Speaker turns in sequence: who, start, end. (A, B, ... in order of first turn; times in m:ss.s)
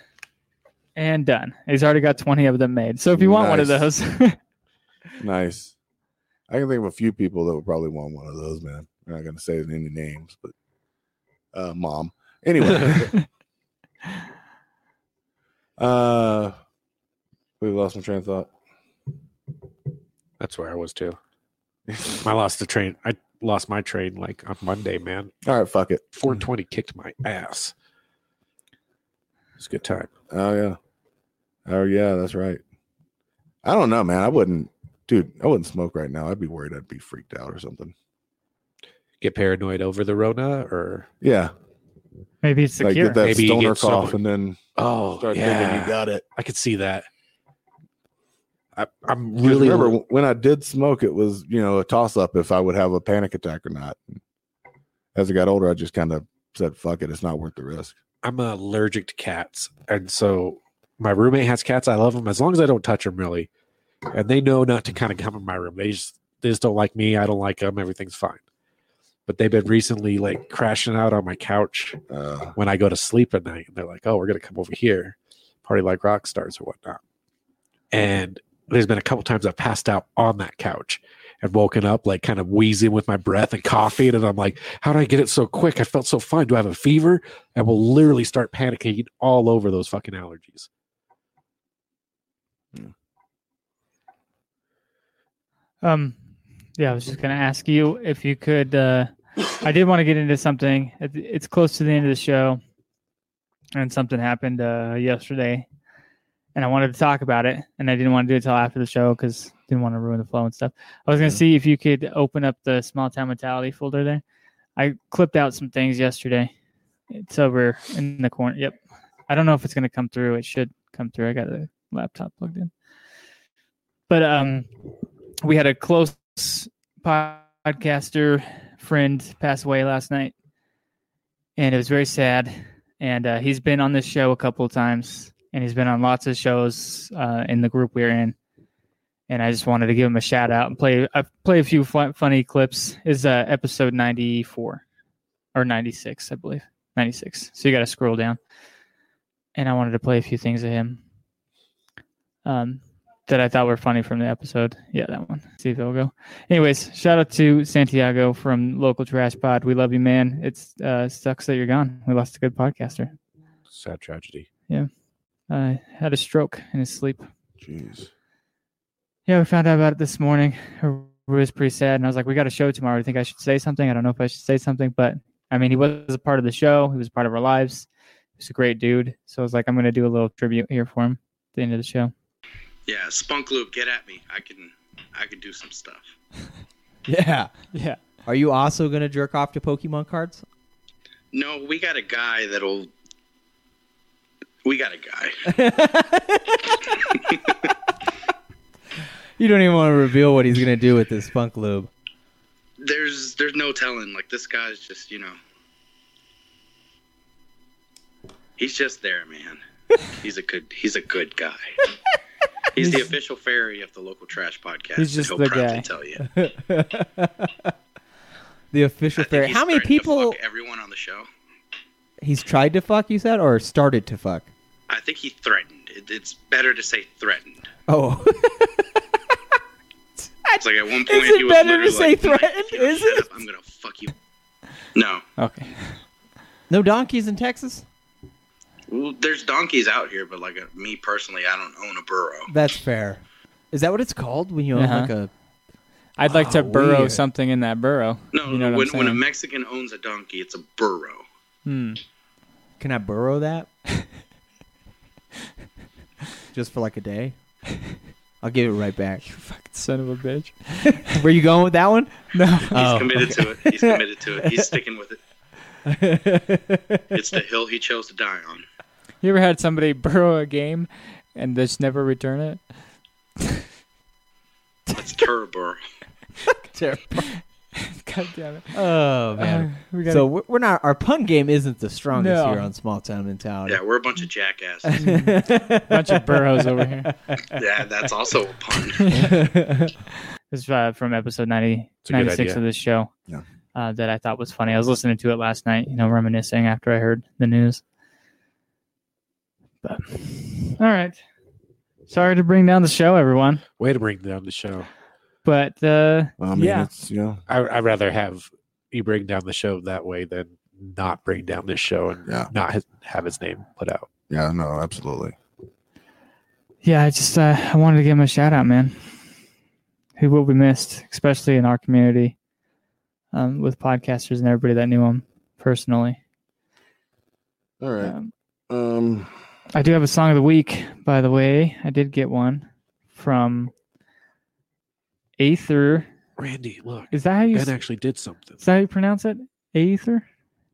0:01.0-0:04.4 A
0:03.1-0:03.9 B
0:05.2-0:05.7 B
0:06.5-0:10.5 B
0:11.5-0:13.2 B
0:15.8-0:16.6 B
0:17.6-0:18.5 B
0:20.4-0:21.2 C
0:21.9-0:22.2 B
0:22.2-0:25.3 C
0:25.4-0:26.0 B
0:26.1-0:27.7 C
0:29.6-0:30.1 C
0:30.3-0:30.8 B
0:31.7-0:32.6 B
0:33.6-0:37.9 B
0:39.2-0:41.1 C
0:41.2-0:41.5 B
0:42.4-0:43.2 A
0:42.8-0:44.6 B
0:43.2-0:44.2 C
0:44.8-0:47.1 C
0:45.2-0:46.2 B
0:48.8-0:50.0 C
0:49.4-0:54.2 B
0:55.2-0:58.0 B
0:58.2-1:03.5 C
1:04.1-1:08.4 C
1:09.3-1:12.0 C
1:12.1-1:12.6 B
1:12.6-1:17.0 C
1:17.9-1:30.7 C
1:35.8-1:36.2 A
1:36.8-1:42.6 A
1:43.8-1:45.7 A
1:46.6-1:54.2 A
1:54.8-1:56.5 A
1:57.1-2:02.7 A
2:04.1-2:04.7 A
2:05.4-2:10.3 A
2:11.6-2:18.4 A
2:19.3-2:24.8 A
2:25.6-2:28.4 A
2:29.6-2:31.0 A
2:32.4-2:43.1 A
2:43.7-2:44.5 C
2:45.5-2:47.3 A
2:47.6-2:48.1 B
2:49.3-2:57.9 A
2:58.4-3:02.1 A
3:02.9-3:06.1 D
3:07.1-3:07.5 E
3:07.7-3:08.0 A
3:08.2-3:10.4 E
3:11.3-3:12.9 D
3:14.6-3:15.4 D
3:15.5-3:16.8 E
3:17.2-3:17.5 D
3:19.4-3:21.9 E
3:22.8-3:25.4 D
3:28.6-3:29.6 D
3:30.2-3:31.7 D
3:32.8-3:36.2 D
3:32.8-3:33.1 A
3:35.0-3:35.9 A
3:36.2-3:37.7 E
3:38.7-3:40.4 E
3:39.2-3:41.3 D
3:42.2-3:44.5 E
3:44.9-3:47.6 D
3:47.9-3:49.2 E
3:50.4-3:53.3 E
3:50.6-3:54.1 D
3:55.0-3:55.2 D
3:55.4-3:56.0 A
3:56.7-3:57.8 E
3:58.9-4:02.5 D
4:02.5-4:05.3 E
4:04.7-4:05.1 A
4:06.2-4:09.2 A
4:06.3-4:07.2 C
4:08.3-4:11.2 D
4:11.7-4:12.0 A
4:12.8-4:13.7 E
4:16.5-4:17.7 E
4:18.4-4:19.2 E
4:19.2-4:21.2 A
4:21.1-4:24.7 E
4:22.3-4:22.8 A
4:22.7-4:25.2 D
4:25.9-4:27.4 E
4:27.1-4:28.6 D
4:29.2-4:32.6 A
4:35.0-4:35.8 D
4:36.6-4:37.3 E
4:37.2-4:38.8 A
4:38.7-4:43.8 E
4:39.4-4:40.3 A
4:42.2-4:42.7 A
4:43.7-4:44.9 D
4:44.8-4:47.4 E
4:45.0-4:47.1 A
4:47.6-4:49.1 D
4:49.0-4:49.4 A
4:49.2-4:49.9 E
4:50.5-4:53.1 A
4:52.1-4:52.6 C
4:53.7-4:57.8 A
4:59.8-5:01.2 A
5:02.1-5:03.6 A
5:03.8-5:04.9 C
5:05.4-5:06.9 A
5:06.4-5:07.4 B
5:07.5-5:14.1 C
5:14.3-5:15.4 B
5:16.8-5:19.0 A
5:20.2-5:22.4 A
5:23.3-5:26.2 A
5:27.8-5:28.2 B
5:28.0-5:28.3 A
5:28.7-5:29.3 B
5:29.7-5:33.7 A
5:35.4-5:36.1 A
5:36.4-5:38.6 C
5:37.1-5:37.8 A
5:38.6-5:40.2 A